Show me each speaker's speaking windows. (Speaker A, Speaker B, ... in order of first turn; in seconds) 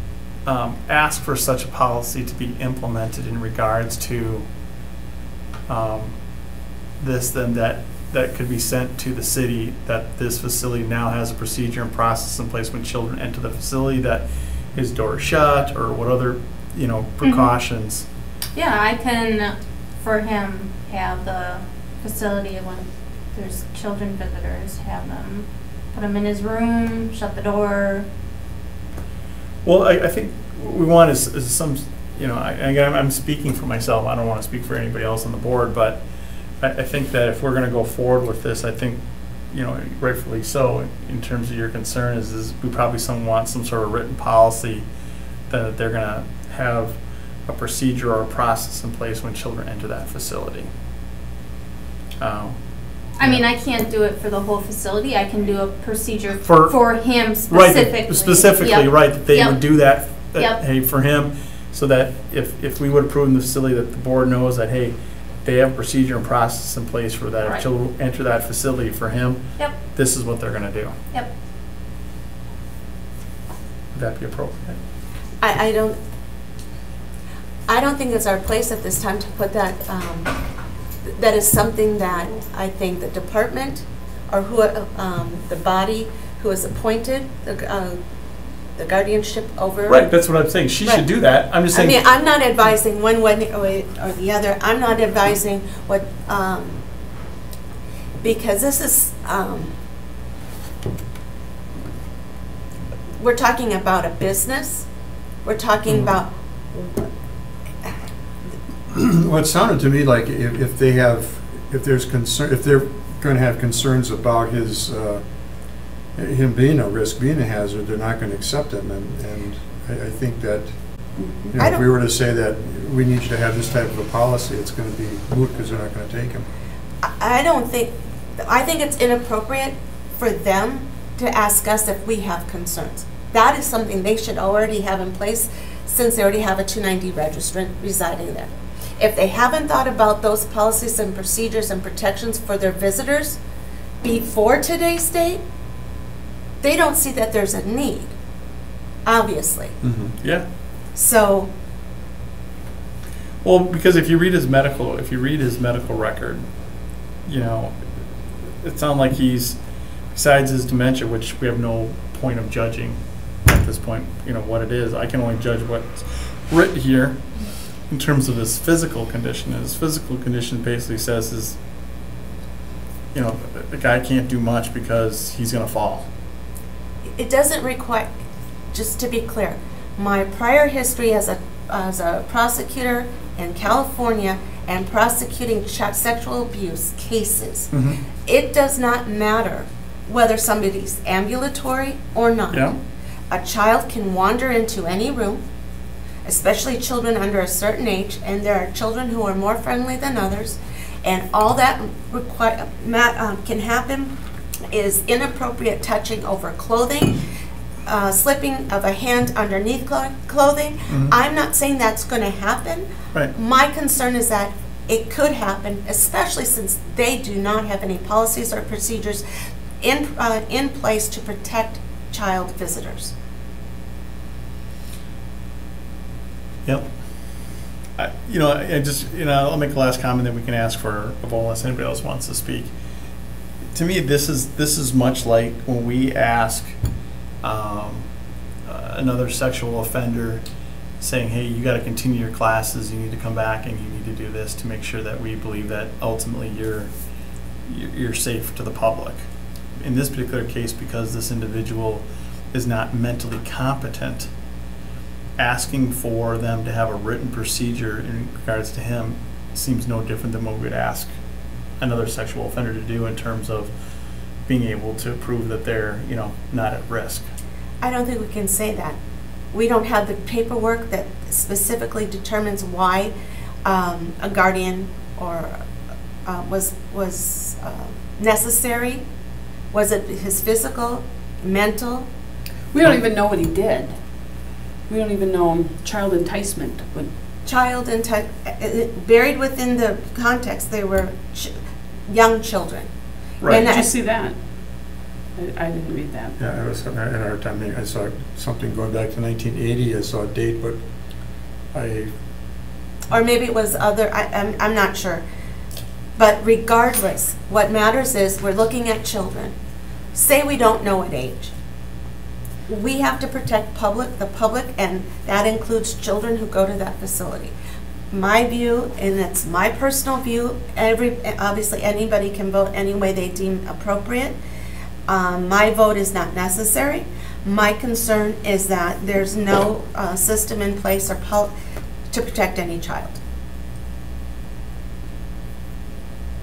Speaker A: 0.4-4.5, 5.7-6.2, 7.0-18.1, 29.6-36.0, 36.6-44.9, 45.5-50.7, 52.2-52.6, 56.4-56.7, 57.5-71.0, 73.9-74.8, 89.9-92.0, 150.2-150.4, 153.4-156.5, 157.2-171.6, 173.1-176.1, 187.7-188.0, 192.5-192.8, 210.9-211.1, 226.6-232.7, 233.7-236.7, 237.4-238.1, 238.6-240.4, 241.0-246.9, 247.7-249.2, 249.8-254.3, 255.4-261.1, 261.8-263.8, 264.4-267.3, 293.4-293.6
Speaker B: 17.2-17.5, 18.5-28.1, 53.2-60.6
Speaker C: 75.4-76.0, 77.7-80.3, 81.0-88.0, 88.8-90.1, 91.7-96.8, 98.2-99.7, 103.2-104.8, 105.4-107.1, 121.5-121.8, 127.0-143.4, 144.0-145.4, 146.6-148.1, 149.0-149.8, 150.9-151.5, 177.1-178.2, 178.7-192.7, 193.3-195.4, 196.2-204.1, 204.7-207.2, 207.8-219.2, 219.8-223.1, 267.8-269.0, 269.5-273.1, 273.6-275.6, 276.2-279.0, 279.7-282.1, 287.4-291.5, 292.1-292.9, 293.4-293.9, 303.1-305.2, 306.1-309.5, 310.1-311.5, 312.7-317.5, 318.1-324.4, 325.1-331.5, 332.1-333.2
Speaker D: 108.9-126.5, 149.8-150.1, 296.4-300.8, 301.7-302.1
Speaker E: 121.2-121.5, 282.7-284.0, 284.9-287.1, 293.6-296.4